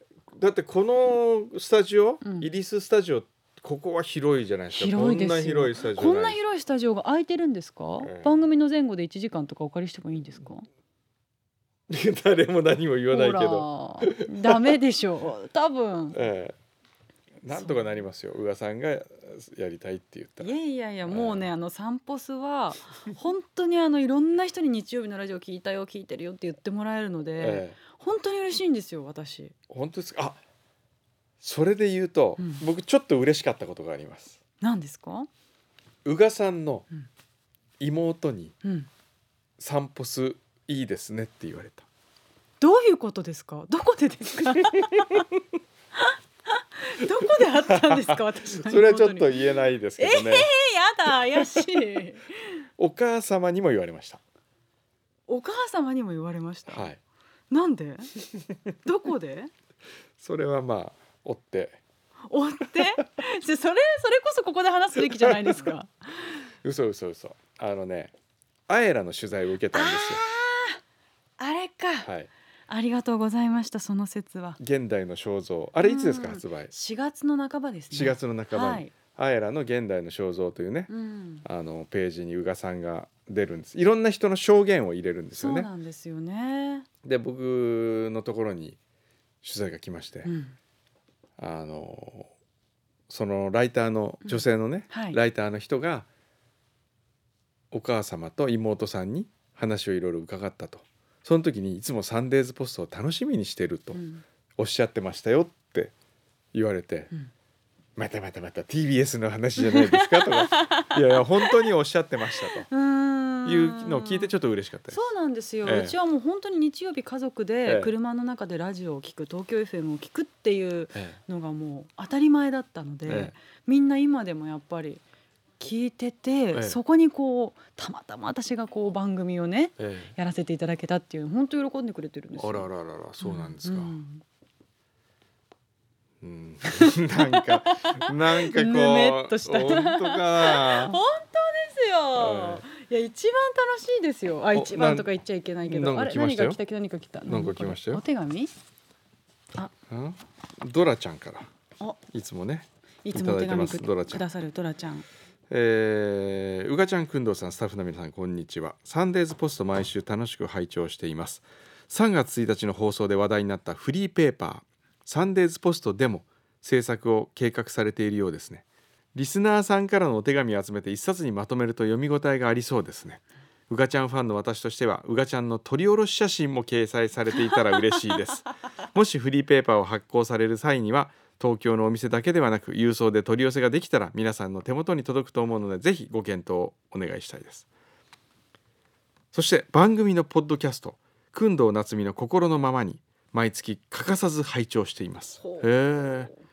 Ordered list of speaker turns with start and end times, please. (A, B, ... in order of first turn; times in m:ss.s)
0:00.3-0:06.4 A
0:02.2-0:02.5 B
0:04.7-0:10.7 B
0:08.0-0:08.4 A
0:11.9-0:14.8 A
0:13.1-0:16.2 B
0:16.1-0:16.5 A
0:17.4-0:20.5 A
0:17.5-0:18.1 B
0:20.4-0:29.5 B
0:21.1-0:21.5 A
0:27.4-0:27.8 A
0:29.7-0:30.4 A
0:31.4-0:34.4 A
0:32.4-0:32.6 B
0:34.6-0:35.3 B
0:36.0-0:36.9 A
0:37.8-0:38.6 A
0:38.6-0:38.9 B
0:39.6-0:41.8 A
0:42.6-0:45.2 B
0:46.0-0:49.4 B
0:47.6-0:50.5 A
0:50.0-0:52.4 B
0:51.4-0:51.6 A
0:52.8-0:54.2 A
0:55.3-0:56.9 B
0:56.7-0:57.0 A
0:57.5-0:58.1 B
0:58.8-0:59.5 B
1:00.2-1:01.8 A
1:02.3-1:06.3 B
1:05.1-1:05.6 A
1:06.6-1:08.1 A
1:08.7-1:10.2 A
1:09.7-1:10.8 B
1:11.4-1:12.1 B
1:12.0-1:12.3 A
1:12.7-1:14.6 B
1:14.6-1:16.7 A
1:15.8-1:18.9 B
1:17.9-1:20.9 A
1:20.9-1:21.4 B
1:21.4-1:25.7 A
1:25.3-1:26.9 B
1:27.0-1:28.8 A
1:29.4-1:30.3 A
1:30.2-1:30.6 B
1:31.4-1:32.3 A
1:33.1-1:36.1 A
1:34.2-1:35.2 B
1:37.7-1:44.0 A
1:43.9-1:44.2 B
1:44.6-1:45.9 A
1:46.5-1:47.1 A
1:48.0-1:52.7 A
1:49.6-1:51.7 B
1:52.6-1:54.3 B
1:53.4-1:55.0 A
1:54.9-2:05.0 B
1:55.6-1:56.0 A
1:57.6-1:57.9 A
2:03.0-2:03.3 A
2:05.6-2:12.7 B
2:06.5-2:06.8 A
2:09.8-2:10.1 A
2:12.4-2:13.9 A
2:13.2-2:14.2 B
2:16.2-2:21.0 A
2:16.8-2:28.5 B
2:22.1-2:22.6 A
2:24.5-2:25.1 A
2:25.6-2:26.6 A
2:27.2-2:28.0 A
2:29.9-2:31.5 A
2:32.1-2:34.2 A
2:33.0-2:35.0 B
2:35.5-3:07.6 A
3:09.3-3:16.3 A
3:15.4-3:15.7 B